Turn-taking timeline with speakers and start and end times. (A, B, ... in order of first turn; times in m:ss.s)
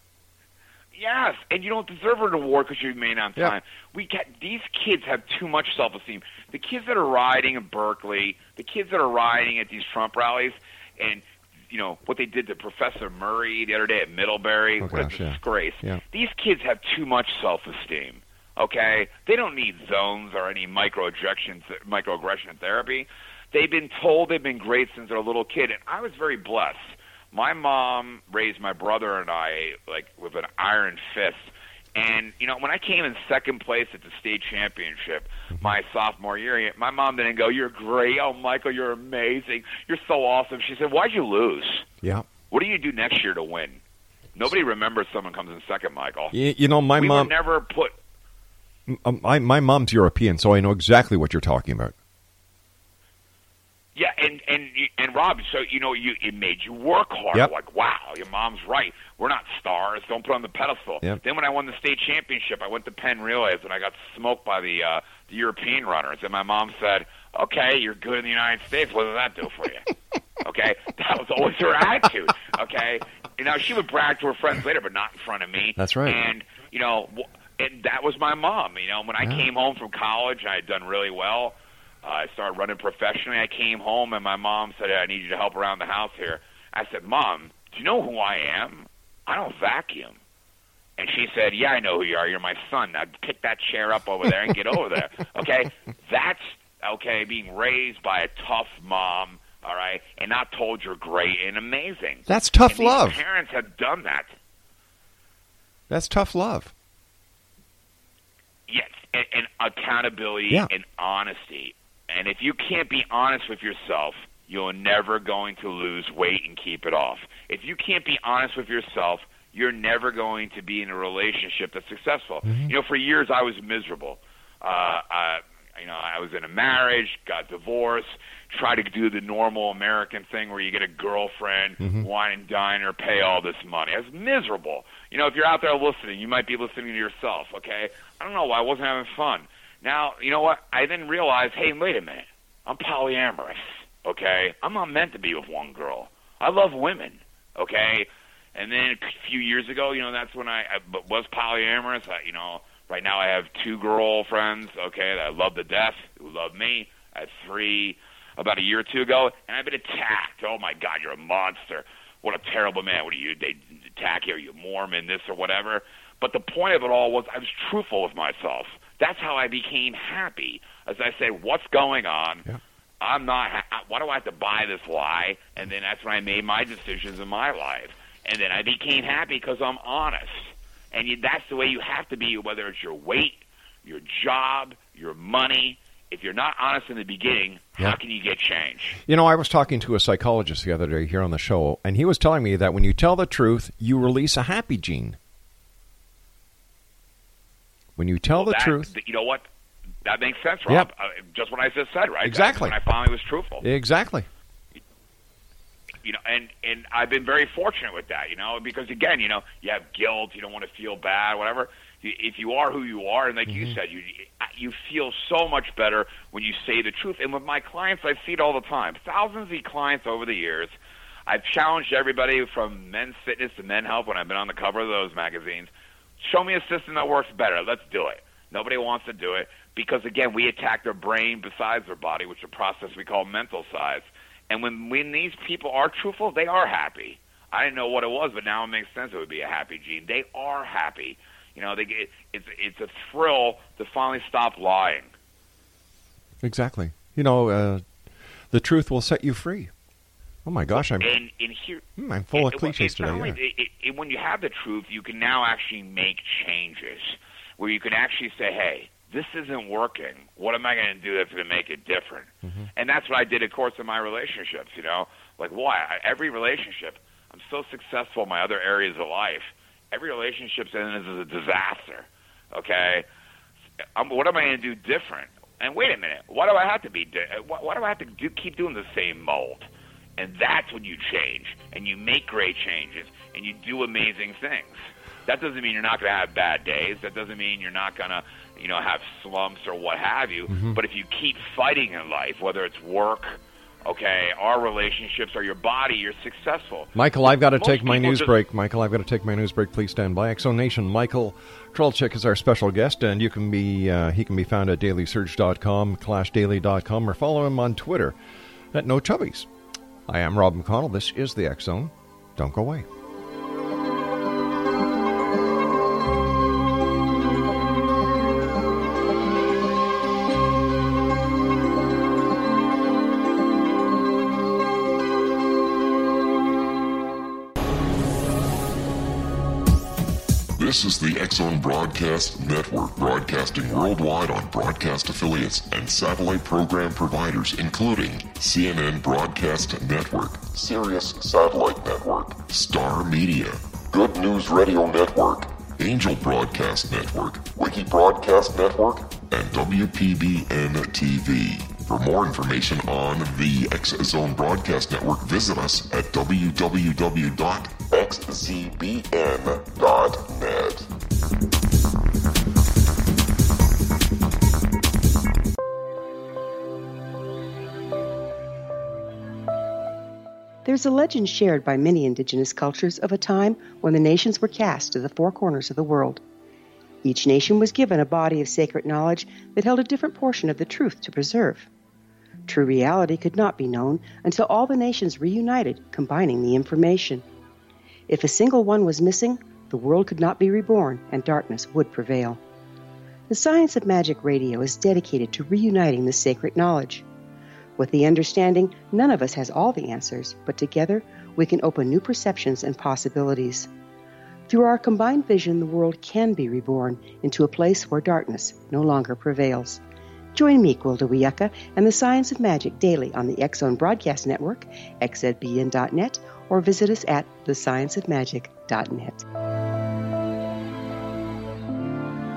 0:01.0-0:41.9 A
0:14.8-0:16.0 B
0:35.5-0:35.8 B
0:42.0-0:42.3 B
0:42.5-0:43.8 A
0:44.3-0:46.3 A
0:46.3-0:47.3 B
0:47.0-0:47.9 A
0:48.9-0:51.9 B
0:53.9-1:09.9 A
1:10.4-1:30.2 A
1:15.8-1:16.2 B
1:31.0-1:44.3 A
1:42.3-1:43.2 B
1:45.9-1:46.7 B
1:48.7-2:52.4 A
2:02.4-2:02.7 B
2:11.8-2:12.1 B
2:53.0-3:09.0 A
3:09.0-3:15.2 B
3:18.0-3:18.9 B
3:18.3-3:19.4 A
3:20.0-3:23.6 A
3:22.2-3:22.8 B
3:23.6-3:24.3 B
3:26.0-3:40.8 A
3:33.5-3:33.8 B
3:41.3-4:05.1 A
4:06.4-4:07.8 B
4:08.5-4:09.7 B
4:10.4-4:11.1 B
4:10.7-4:33.0 A
4:12.0-4:13.4 B
4:22.4-4:22.7 B
4:34.0-4:39.6 A
4:40.2-4:58.4 A
4:50.5-4:50.8 B
4:56.9-5:08.2 B
5:08.7-5:09.5 B
5:10.1-5:12.8 B
5:30.6-6:00.9 C
6:10.6-6:16.2 D
6:17.0-6:21.7 D
6:22.5-6:27.2 D
6:28.1-6:32.4 D
6:33.3-6:37.0 D
6:37.8-6:43.7 D
6:44.5-6:49.8 D
6:50.3-6:59.2 D